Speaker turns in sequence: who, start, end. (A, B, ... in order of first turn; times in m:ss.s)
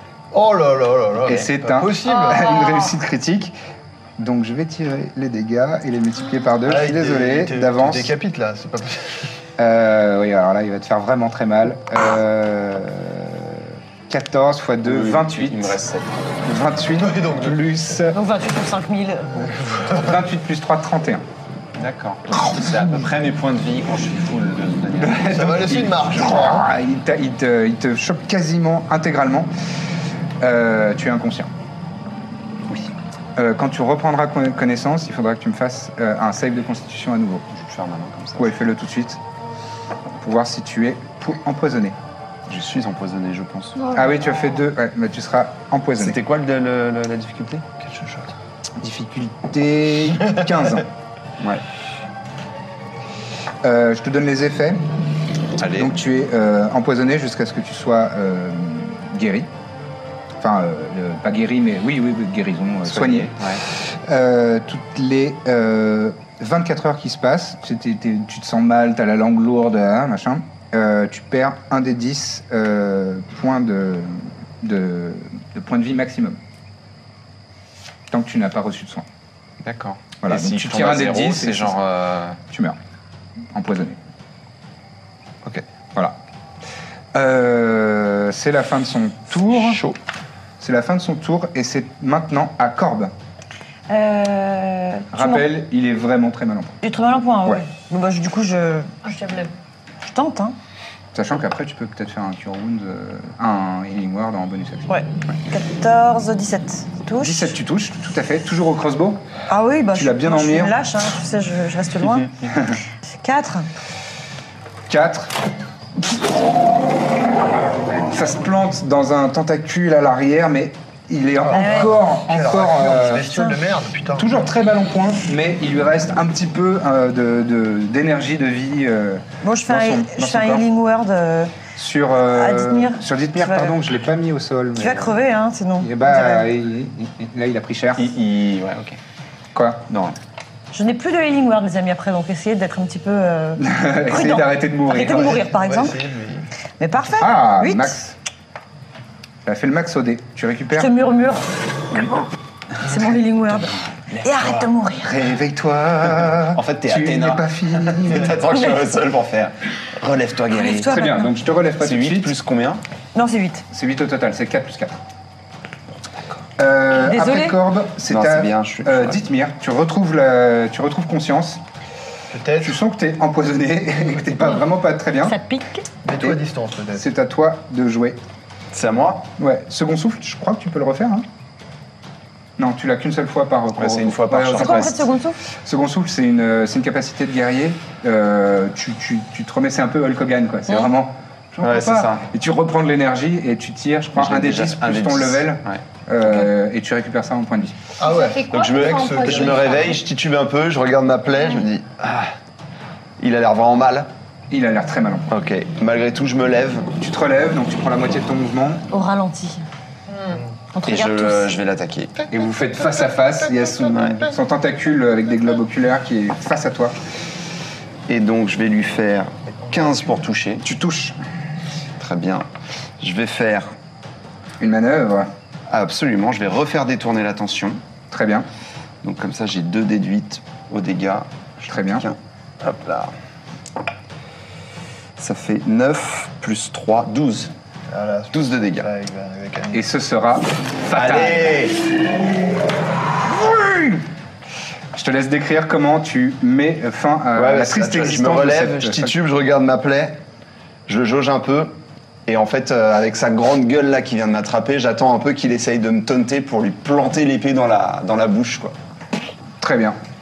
0:00.3-0:02.6 A
0:01.2-0:03.5 B
0:02.1-0:02.9 C
0:04.2-0:08.1 B
0:06.6-0:09.3 A
0:09.6-0:15.8 B
0:14.8-0:16.3 D
0:16.4-0:18.2 B
0:16.9-0:17.8 A
0:18.1-0:19.5 E
0:19.8-0:21.2 B
0:21.8-0:25.4 D
0:22.4-0:22.9 B
0:25.0-0:29.5 B
0:25.3-0:26.7 A
0:30.4-0:31.5 B
0:33.4-0:37.4 B
0:37.5-0:38.5 D
0:38.4-0:39.2 B
0:40.2-0:41.9 B
0:42.5-0:43.9 D
0:43.8-0:44.1 C
0:43.9-0:46.2 B
0:46.0-0:47.6 D
0:47.8-0:48.3 A
0:48.8-0:50.9 B
0:53.6-0:54.8 B
0:55.6-0:55.9 D
0:55.6-0:59.5 B
1:00.4-1:16.4 B
1:02.9-1:03.6 D
1:18.1-1:19.0 B
1:19.6-1:22.4 D
1:20.2-1:21.8 B
1:22.5-1:22.8 B
1:23.5-1:24.0 B
1:27.1-1:29.8 B
1:29.5-1:30.0 D
1:30.6-1:33.1 B
1:33.9-1:35.5 E
1:35.1-1:36.8 B
1:36.8-1:38.9 E
1:39.0-1:39.5 C
1:40.0-1:40.6 E
1:41.1-1:45.4 B
1:44.9-1:47.5 E
1:47.2-1:49.2 B
1:49.5-1:52.3 E
1:49.9-1:50.8 B
1:52.5-1:52.8 B
1:53.2-1:53.7 E
1:54.9-1:55.3 B
1:58.1-2:03.3 B
2:01.4-2:04.4 A
2:01.5-2:01.9 E
2:03.3-2:03.5 E
2:04.1-2:10.6 B
2:09.4-2:11.5 E
2:11.8-2:15.2 B
2:12.3-2:13.8 E
2:14.8-2:16.5 E
2:15.8-2:18.1 B
2:18.0-2:19.0 D
2:19.5-2:19.8 B
2:19.9-2:20.2 D
2:20.7-2:26.0 E
2:23.6-2:25.3 B
2:25.0-2:26.5 A
2:26.8-2:28.0 E
2:27.2-2:28.1 B
2:29.4-2:30.9 B
2:30.7-2:32.2 E
2:32.8-2:35.3 E
2:35.0-2:38.4 B
2:36.2-2:40.9 D
2:40.5-2:41.3 E
2:40.9-2:42.3 B
2:41.8-2:42.8 D
2:43.1-2:43.6 E
2:43.7-2:45.0 B
2:46.6-2:51.6 B
2:46.9-2:47.6 E
2:48.1-2:49.2 D
2:52.3-2:52.8 A
2:52.6-2:55.4 B
2:55.2-2:55.8 E
2:56.0-2:57.1 A
2:57.0-2:58.2 B
2:58.7-2:59.3 D
2:59.4-3:01.2 B
3:02.6-3:05.0 B
3:03.8-3:05.0 D
3:04.6-3:05.4 E
3:05.6-3:17.8 B
3:11.6-3:12.2 D
3:14.2-3:15.8 D
3:18.0-3:19.9 A
3:18.0-3:20.0 C
3:18.5-3:22.3 D
3:23.2-3:24.1 D
3:24.5-3:25.3 B
3:25.3-3:26.9 D
3:27.0-3:28.8 B
3:28.9-3:29.6 E
3:30.2-3:30.4 A
3:30.7-3:31.6 E
3:30.8-3:32.2 D
3:32.3-3:37.0 B
3:32.3-3:34.3 A
3:33.9-3:34.2 D
3:38.1-3:40.7 D
3:39.6-3:40.0 A
3:40.6-3:41.2 B
3:42.0-3:42.5 D
3:43.0-3:43.7 D
3:44.6-3:45.3 B
3:45.7-3:47.8 D
3:48.1-3:48.5 B
3:49.0-3:53.1 D
3:51.7-3:52.0 B
3:55.2-3:57.5 D
3:57.9-3:59.8 A
3:58.3-3:58.9 D
3:59.7-4:01.7 B
4:00.9-4:01.8 D
4:03.2-4:04.0 B
4:04.9-4:09.1 B
4:07.4-4:10.2 D
4:10.9-4:11.8 D
4:12.3-4:18.7 D
4:19.6-4:20.0 B